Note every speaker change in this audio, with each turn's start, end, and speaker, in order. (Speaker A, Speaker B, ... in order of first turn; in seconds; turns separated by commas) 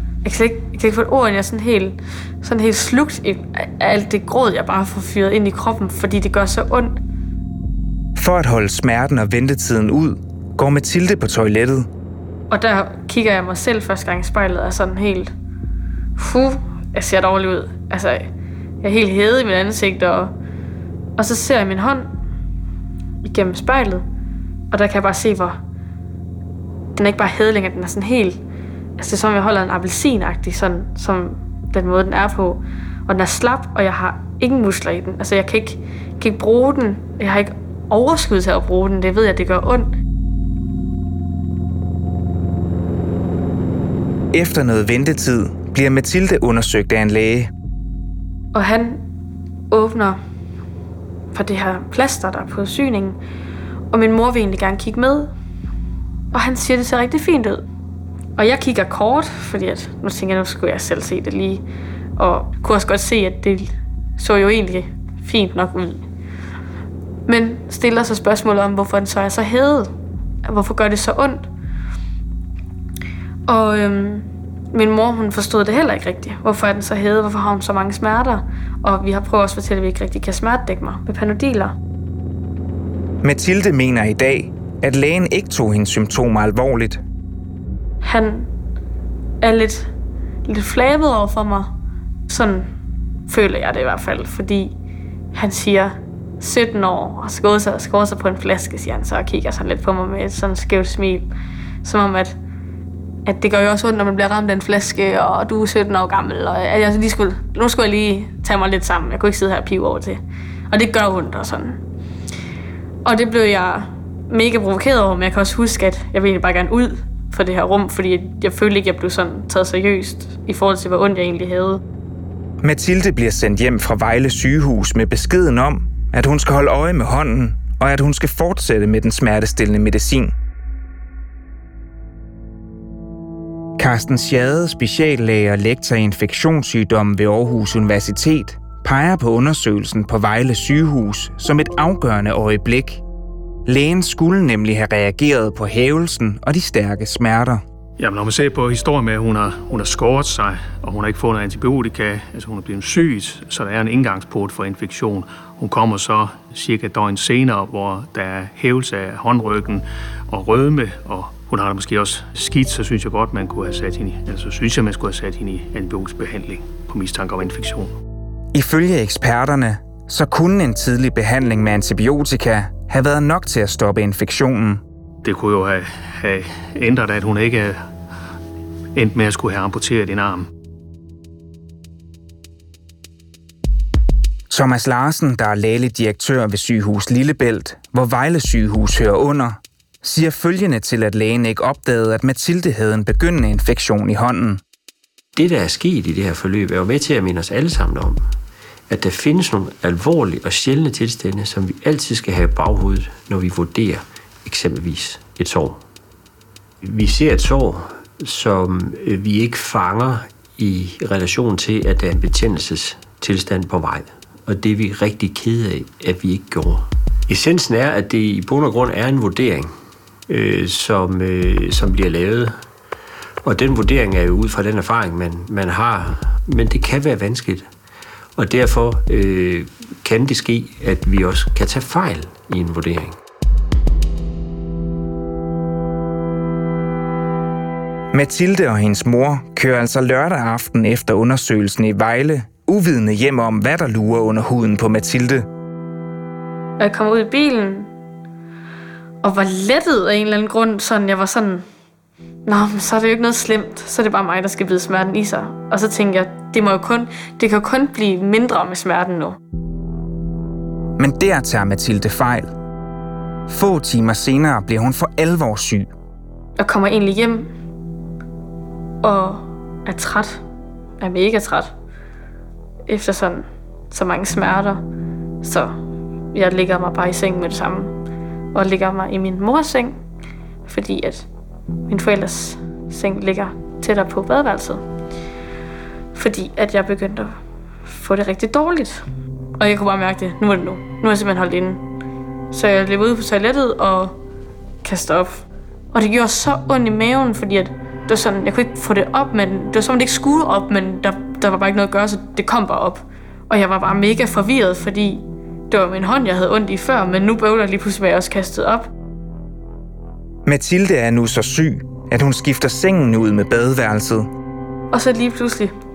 Speaker A: 0.2-7.0, Speaker B: 8.2-11.9, Speaker A: 12.5-15.3, Speaker A: 16.2-18.3, Speaker A: 18.8-20.3, Speaker A: 21.2-22.1, Speaker A: 23.2-24.1, Speaker A: 24.7-25.6, Speaker A: 27.0-28.4, Speaker A: 29.0-39.9, Speaker B: 44.3-47.5, Speaker A: 48.5-49.0, Speaker A: 49.7-50.2, Speaker A: 51.3-53.2, Speaker A: 53.9-55.3, Speaker A: 56.3-57.6, Speaker A: 58.4-61.6, Speaker A: 62.2-66.0, Speaker A: 67.3-69.9, Speaker A: 70.5-71.5, Speaker A: 73.5-81.8, Speaker B: 83.2-87.0, Speaker A: 88.0-88.5, Speaker A: 89.4-89.9, Speaker A: 90.5-91.8, Speaker A: 92.3-92.7, Speaker A: 93.3-94.7, Speaker A: 95.3-101.3, Speaker A: 101.8-102.4, Speaker A: 103.3-111.8, Speaker A: 113.0-121.8, Speaker B: 122.6-130.3, Speaker B: 133.8-143.0, Speaker B: 143.7-147.6, Speaker C: 148.0-167.9, Speaker B: 168.5-174.8, Speaker C: 175.2-177.8, Speaker C: 178.9-180.5, Speaker B: 184.5-194.6, Speaker D: 195.4-198.2, Speaker D: 198.9-205.8, Speaker D: 206.8-219.7, Speaker D: 220.3-222.6, Speaker D: 223.4-227.7, Speaker D: 228.4-233.2, Speaker B: 238.1-245.5, Speaker A: 246.8-247.9, Speaker A: 249.2-251.7, Speaker A: 252.5-259.4, Speaker B: 261.0-262.6, Speaker B: 263.5-265.9, Speaker A: 266.6-267.5, Speaker A: 269.0-270.4, Speaker A: 271.0-271.7, Speaker A: 272.9-274.8, Speaker A: 275.4-275.8, Speaker A: 276.3-277.9, Speaker A: 278.5-280.0, Speaker A: 280.7-281.3, Speaker A: 281.9-284.8, Speaker A: 286.1-287.4, Speaker A: 287.9-289.0, Speaker A: 289.6-291.8, Speaker A: 292.5-294.2, Speaker A: 294.8-308.9, Speaker B: 310.5-314.3, Speaker A: 314.9-315.7